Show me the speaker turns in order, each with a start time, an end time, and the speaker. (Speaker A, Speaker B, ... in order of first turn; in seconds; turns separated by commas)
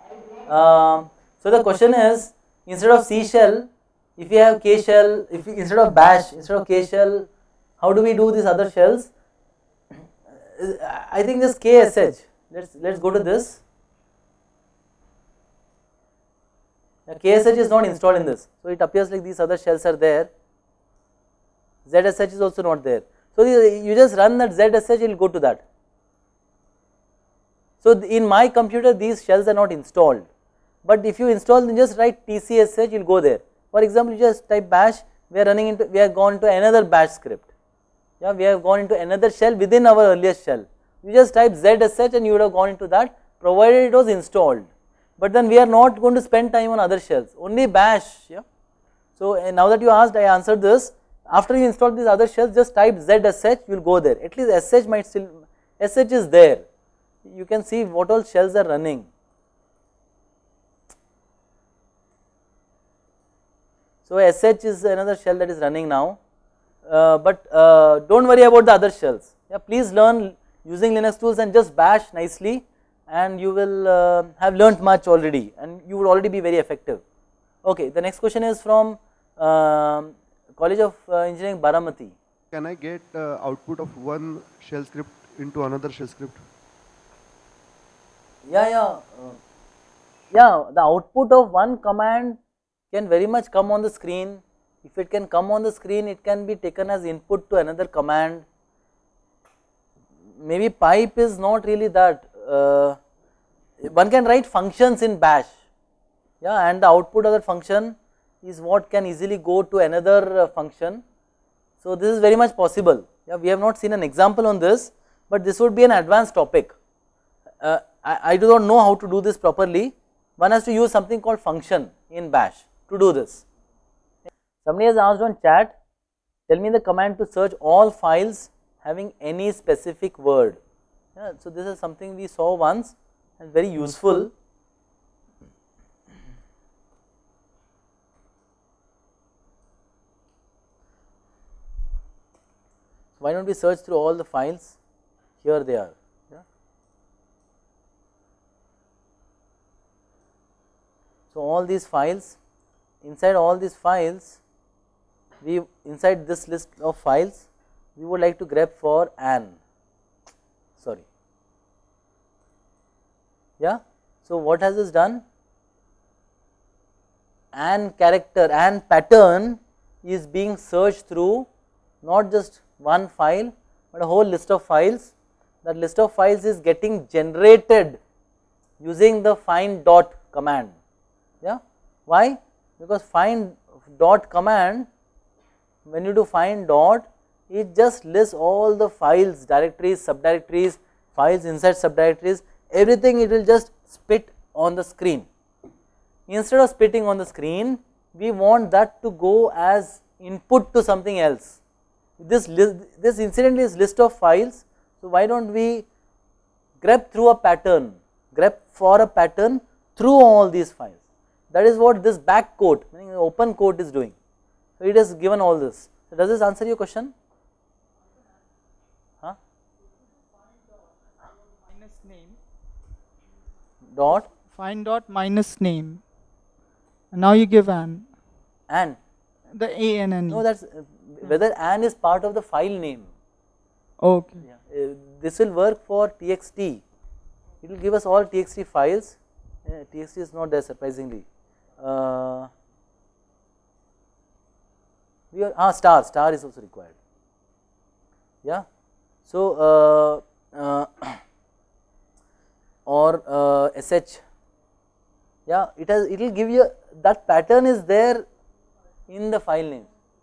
Speaker A: 0.5-3.7, Speaker A: 4.2-7.3, Speaker A: 7.8-9.1, Speaker A: 10.4-13.6, Speaker A: 17.1-20.3, Speaker A: 21.9-25.6, Speaker A: 27.8-30.3, Speaker A: 30.9-37.5, Speaker A: 38.2-44.7, Speaker A: 45.2-48.4, Speaker A: 49.2-56.6, Speaker A: 57.2-59.1, Speaker A: 64.1-66.2, Speaker A: 66.9-77.0, Speaker A: 77.6-82.2, Speaker B: 82.5-86.4, Speaker A: 88.5-89.4, Speaker A: 90.3-92.4, Speaker A: 92.9-98.5, Speaker A: 100.4-103.0, Speaker A: 103.8-105.5, Speaker A: 106.4-111.0, Speaker A: 111.8-116.8, Speaker A: 117.6-123.4, Speaker A: 124.7-125.7, Speaker A: 126.5-130.6, Speaker A: 131.2-134.3, Speaker A: 143.2-144.8, Speaker A: 145.4-146.4, Speaker A: 151.3-152.4, Speaker A: 153.0-154.4, Speaker A: 155.4-159.6, Speaker A: 160.8-161.0, Speaker A: 163.6-165.2, Speaker A: 167.5-171.5, Speaker A: 172.0-175.1, Speaker A: 175.6-178.0, Speaker A: 178.8-180.8, Speaker A: 181.4-184.9, Speaker A: 185.9-195.3, Speaker A: 196.3-201.6, Speaker A: 202.2-205.9, Speaker A: 206.8-214.1, Speaker A: 214.8-217.1, Speaker C: 221.7-222.4, Speaker A: 223.9-224.3, Speaker C: 224.5-226.0, Speaker C: 227.1-228.1, Speaker A: 228.7-229.0, Speaker C: 229.5-230.4, Speaker A: 230.3-233.1, Speaker C: 234.0-234.4, Speaker A: 234.4-236.8, Speaker A: 237.6-241.2, Speaker A: 241.8-242.5, Speaker A: 245.3-246.9, Speaker A: 249.3-251.2, Speaker A: 252.9-254.2, Speaker A: 255.5-258.2, Speaker A: 259.1-259.9